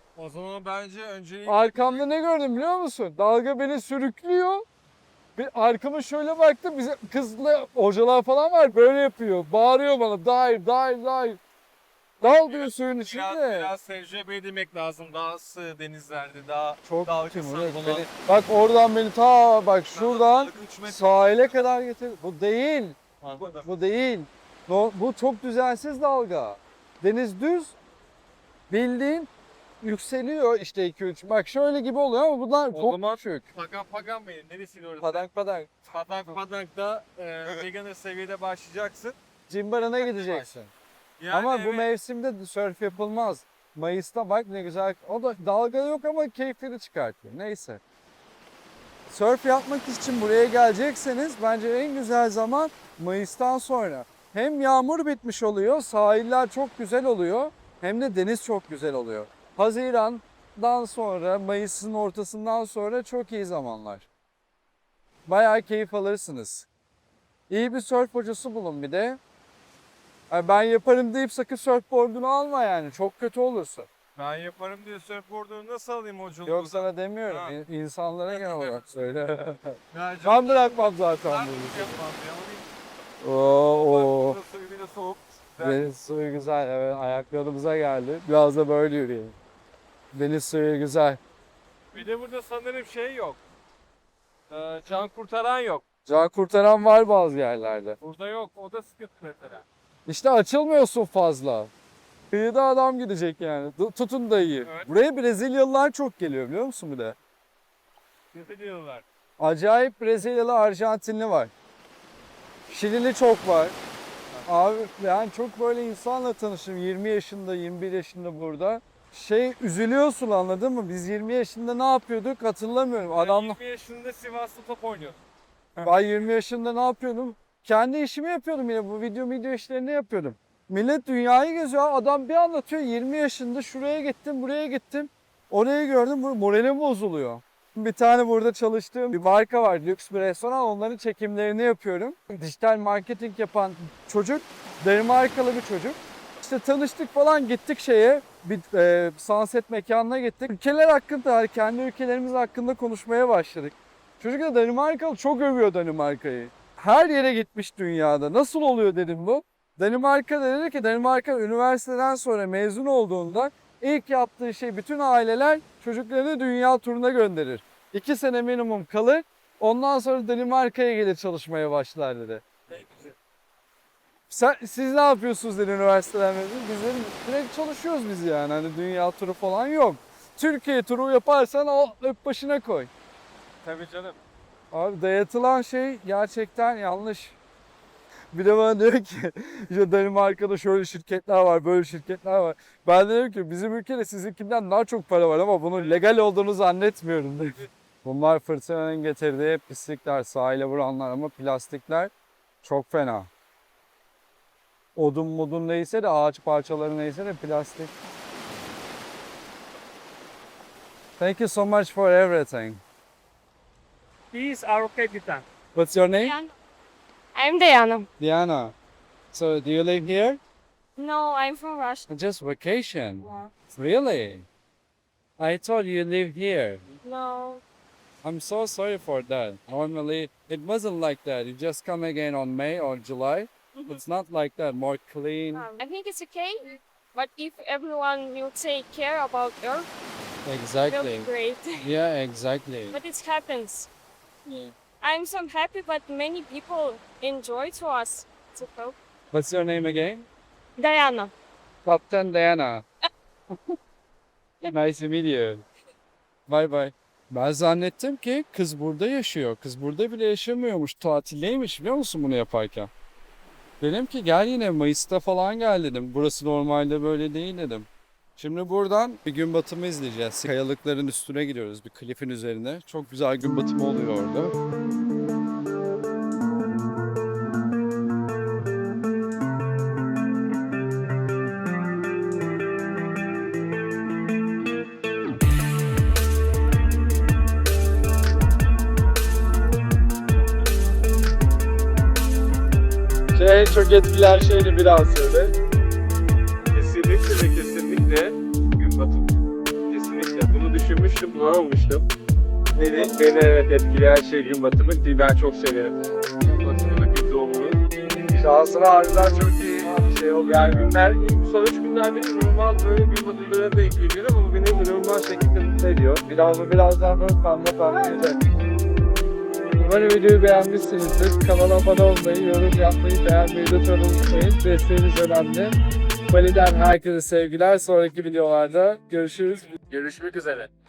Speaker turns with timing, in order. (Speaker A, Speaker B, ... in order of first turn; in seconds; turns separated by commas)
Speaker A: 0.1-2.1, Speaker B: 1.4-4.6, Speaker B: 5.3-11.4, Speaker B: 12.2-13.7, Speaker A: 12.2-18.1, Speaker B: 16.8-27.8, Speaker A: 19.9-21.6, Speaker A: 23.2-23.6, Speaker B: 28.7-29.3, Speaker B: 29.8-33.4, Speaker A: 32.7-35.3, Speaker B: 35.0-35.7, Speaker A: 35.9-39.2, Speaker B: 39.5-40.7, Speaker A: 40.0-40.5, Speaker A: 41.2-41.9, Speaker B: 41.3-47.8, Speaker B: 49.1-64.1, Speaker B: 65.3-66.7, Speaker B: 67.5-69.2, Speaker B: 70.3-73.9, Speaker A: 74.2-77.5, Speaker B: 76.4-81.9, Speaker A: 78.3-78.9, Speaker A: 79.9-82.7, Speaker B: 83.2-84.4, Speaker A: 83.7-85.8, Speaker B: 85.6-89.3, Speaker B: 90.1-91.2, Speaker A: 91.9-93.4, Speaker A: 94.5-95.8, Speaker B: 96.1-98.0, Speaker A: 98.0-99.6, Speaker B: 100.1-101.7, Speaker B: 102.3-107.2, Speaker A: 104.6-104.9, Speaker A: 108.3-109.0, Speaker B: 109.4-111.5, Speaker B: 112.7-113.8, Speaker B: 114.5-123.6, Speaker A: 123.1-125.2, Speaker B: 125.8-172.4, Speaker A: 172.8-173.1, Speaker B: 174.3-182.9, Speaker A: 183.6-184.2, Speaker B: 184.7-187.4, Speaker B: 188.3-202.1, Speaker B: 202.6-203.3, Speaker B: 204.9-207.9, Speaker B: 211.2-212.8, Speaker A: 214.3-215.4, Speaker B: 215.7-216.3, Speaker C: 216.2-216.5, Speaker C: 217.3-218.1, Speaker B: 218.2-218.7, Speaker B: 219.3-220.4, Speaker C: 221.0-222.1, Speaker B: 222.1-224.5, Speaker B: 225.4-226.8, Speaker C: 227.0-227.6, Speaker B: 228.2-235.7, Speaker C: 233.7-234.0, Speaker C: 235.5-239.9, Speaker B: 240.4-243.0, Speaker C: 240.9-241.9, Speaker C: 242.9-243.9, Speaker C: 244.5-248.9, Speaker B: 249.3-250.2, Speaker C: 250.8-251.3, Speaker B: 251.8-252.8, Speaker B: 254.6-255.6, Speaker B: 256.5-262.9, Speaker B: 263.8-274.5, Speaker B: 293.3-295.5, Speaker A: 296.7-302.0, Speaker A: 302.7-307.8, Speaker B: 302.8-303.1, Speaker B: 308.3-310.9, Speaker A: 309.2-316.0, Speaker B: 315.9-318.4, Speaker B: 319.8-325.8, Speaker B: 326.3-329.7, Speaker A: 329.8-330.7